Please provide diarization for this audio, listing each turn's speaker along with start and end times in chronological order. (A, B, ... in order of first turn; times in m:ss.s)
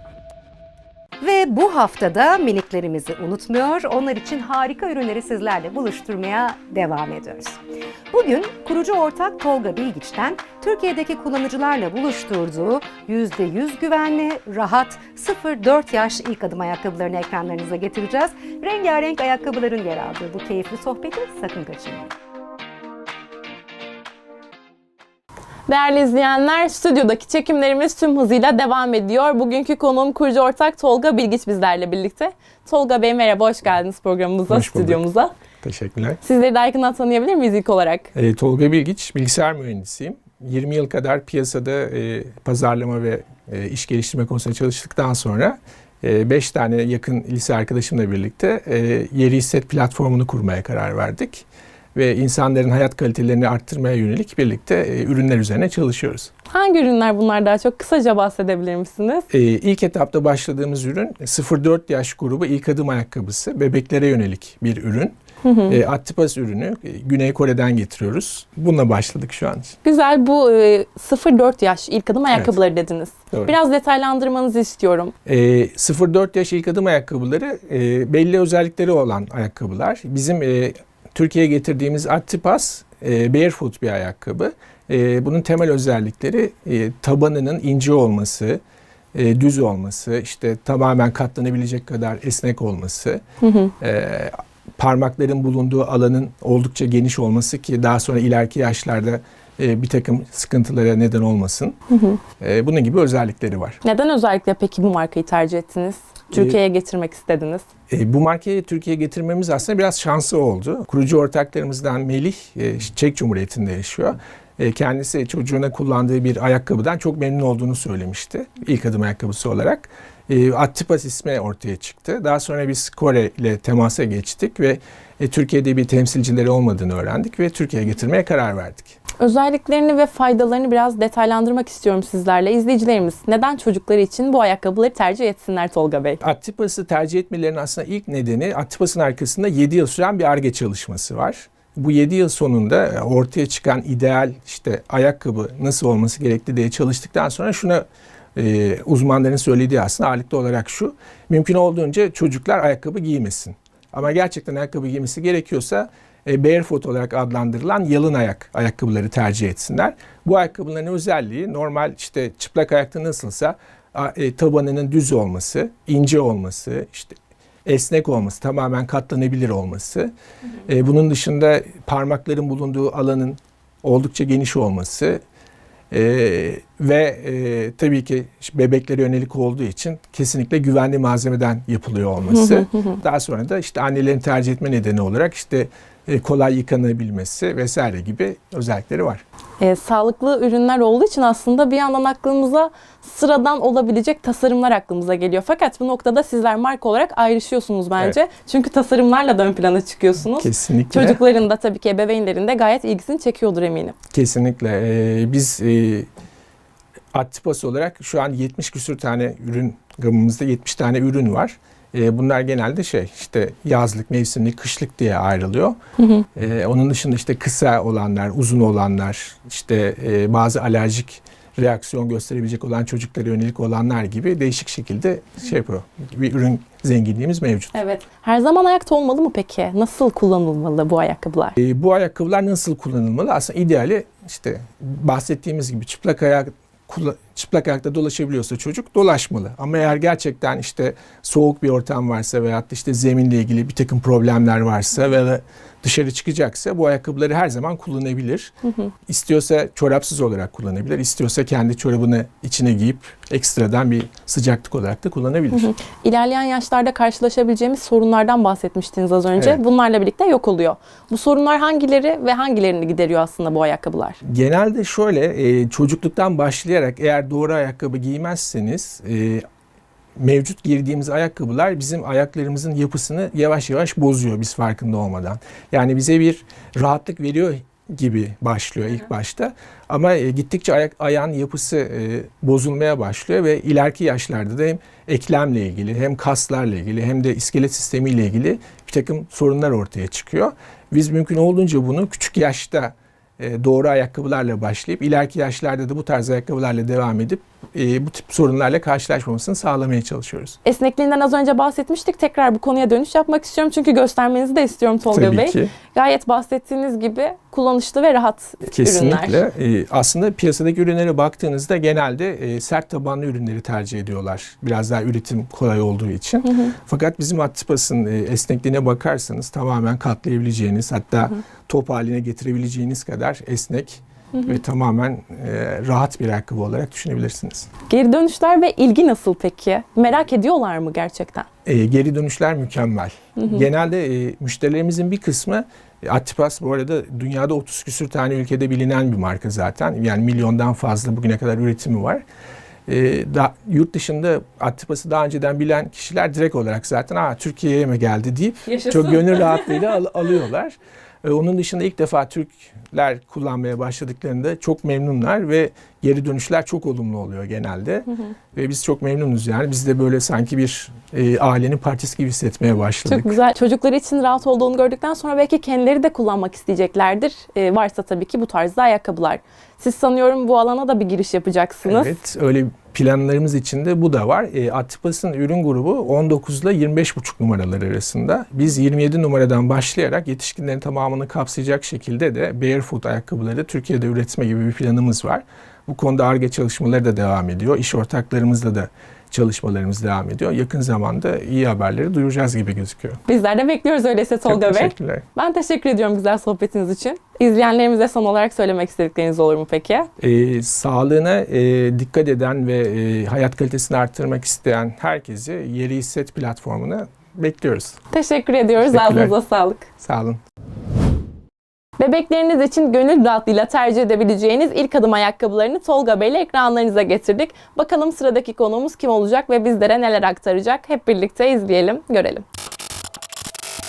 0:01.2-0:07.6 A
0:08.1-0:22.1 A
0:25.7-0:35.3 B
0:34.5-0:35.0 C
0:35.6-0:36.2 C
0:36.2-0:38.1 B
0:38.1-0:56.3 C
0:56.5-0:59.2 B
0:59.3-1:05.2 C
1:05.4-1:05.8 B
1:05.7-1:09.8 C
1:09.8-1:15.1 B
1:15.2-1:28.6 C
1:29.1-1:33.2 C
1:33.4-1:33.7 B
1:33.8-1:41.8 C
1:41.9-1:42.2 B
1:42.4-1:43.8 C
1:43.8-1:47.6 B
1:46.3-1:46.6 C
1:47.9-2:09.0 C
2:09.2-2:16.2 B
2:16.2-2:50.1 C
2:50.6-2:55.2 C
2:55.9-3:09.2 C
3:02.3-3:03.0 B
3:09.6-3:23.9 B
3:20.3-3:21.2 C
3:24.1-3:26.1 C
3:27.1-3:35.8 C
3:36.0-3:36.3 B
3:36.3-3:47.8 C
3:47.7-3:51.5 B
3:51.6-4:08.5 C
4:09.1-4:15.7 C
4:15.5-4:24.2 B
4:19.4-4:19.6 C
4:24.2-4:29.4 C
4:30.2-5:00.6 C
5:00.6-5:09.4 B
5:05.1-5:05.7 C
5:08.7-5:27.7 C
5:27.9-5:31.5 B
5:31.6-5:42.2 C
5:33.4-5:33.7 B
5:42.9-6:03.4 C
5:48.7-5:49.8 B
6:03.0-6:12.1 B
6:11.8-6:33.2 C
6:33.2-6:40.1 B
6:34.4-6:35.2 C
6:40.2-6:48.0 C
6:48.1-6:49.9 B
6:48.8-6:49.4 C
6:50.0-6:50.4 C
6:52.0-7:02.4 B